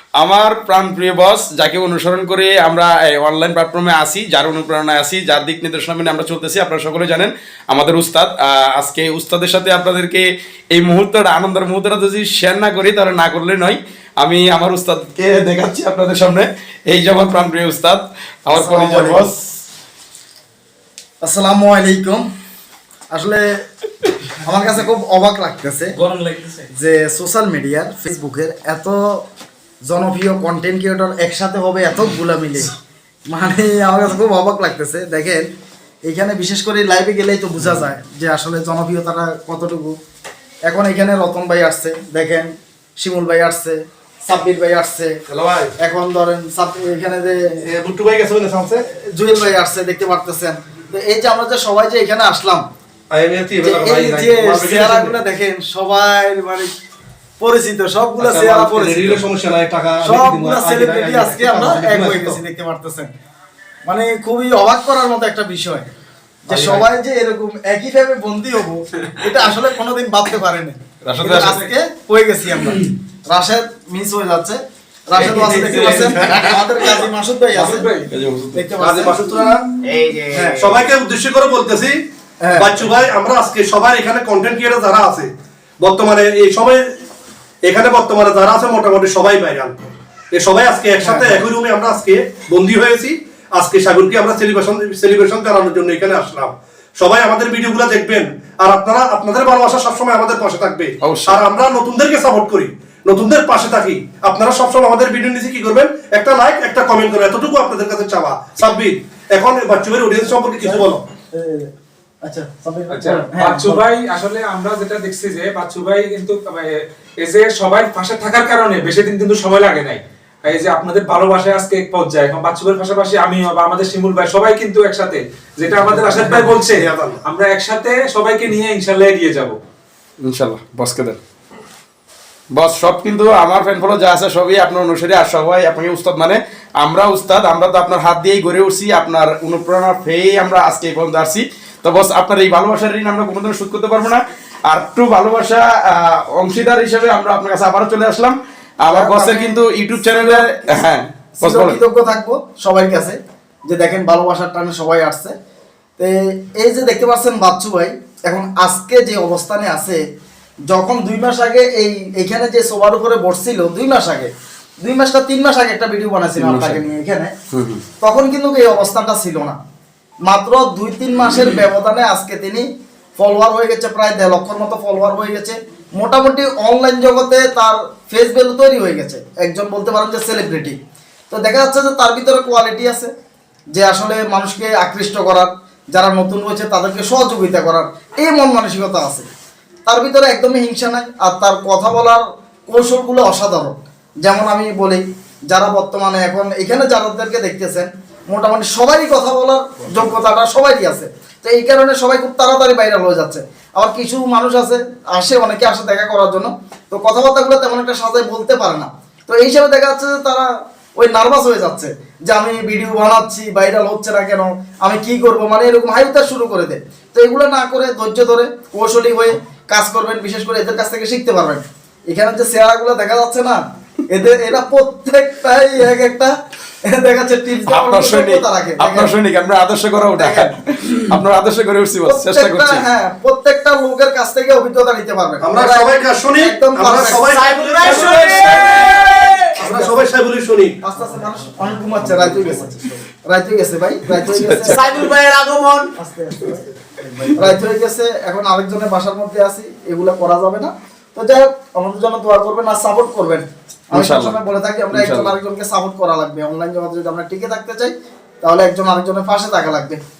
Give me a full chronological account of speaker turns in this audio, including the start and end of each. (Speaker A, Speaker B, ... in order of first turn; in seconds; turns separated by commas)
Speaker A: 0.2-19.5, Speaker B: 18.5-19.3, Speaker B: 21.2-22.2, Speaker B: 23.1-23.5, Speaker B: 24.4-26.0, Speaker C: 26.0-26.7, Speaker B: 26.7-29.2, Speaker B: 29.8-32.7, Speaker B: 33.3-35.5, Speaker B: 36.0-40.0, Speaker B: 40.6-45.2, Speaker D: 45.3-45.7, Speaker B: 45.8-47.4, Speaker D: 47.6-48.8, Speaker B: 48.9-52.6, Speaker D: 53.1-55.2, Speaker B: 53.6-56.7, Speaker B: 57.4-59.2, Speaker D: 58.2-62.4, Speaker B: 60.0-63.1, Speaker B: 63.8-65.9, Speaker B: 66.5-77.9, Speaker D: 66.5-66.8, Speaker A: 71.0-71.7, Speaker D: 75.1-76.6, Speaker E: 77.5-78.0, Speaker A: 78.1-78.6, Speaker B: 78.5-79.4, Speaker D: 78.8-79.6, Speaker C: 79.9-80.6, Speaker B: 80.3-80.6, Speaker D: 80.6-82.0, Speaker B: 82.4-82.8, Speaker D: 82.6-86.8, Speaker D: 87.6-111.0, Speaker B: 91.0-91.5, Speaker A: 101.0-101.4, Speaker B: 110.6-111.7, Speaker B: 112.2-113.8, Speaker E: 112.9-129.6, Speaker D: 125.8-127.2, Speaker A: 130.2-131.2, Speaker A: 132.5-151.8, Speaker B: 148.9-150.8, Speaker B: 151.4-155.3, Speaker B: 156.0-160.0, Speaker B: 160.7-164.3, Speaker B: 164.8-167.3, Speaker A: 166.4-166.8, Speaker A: 167.5-167.8, Speaker B: 168.0-169.6, Speaker B: 170.2-172.7, Speaker B: 173.2-180.8, Speaker B: 181.3-183.1, Speaker B: 183.7-189.3, Speaker B: 189.8-226.3, Speaker B: 226.8-229.1, Speaker A: 227.7-232.8, Speaker B: 230.1-230.5, Speaker B: 232.1-238.5, Speaker D: 235.4-240.8, Speaker C: 237.3-239.5, Speaker B: 239.6-239.9, Speaker B: 240.8-245.1, Speaker A: 244.2-245.1, Speaker C: 244.7-245.9, Speaker B: 245.9-260.0, Speaker A: 253.9-254.4, Speaker A: 254.9-255.3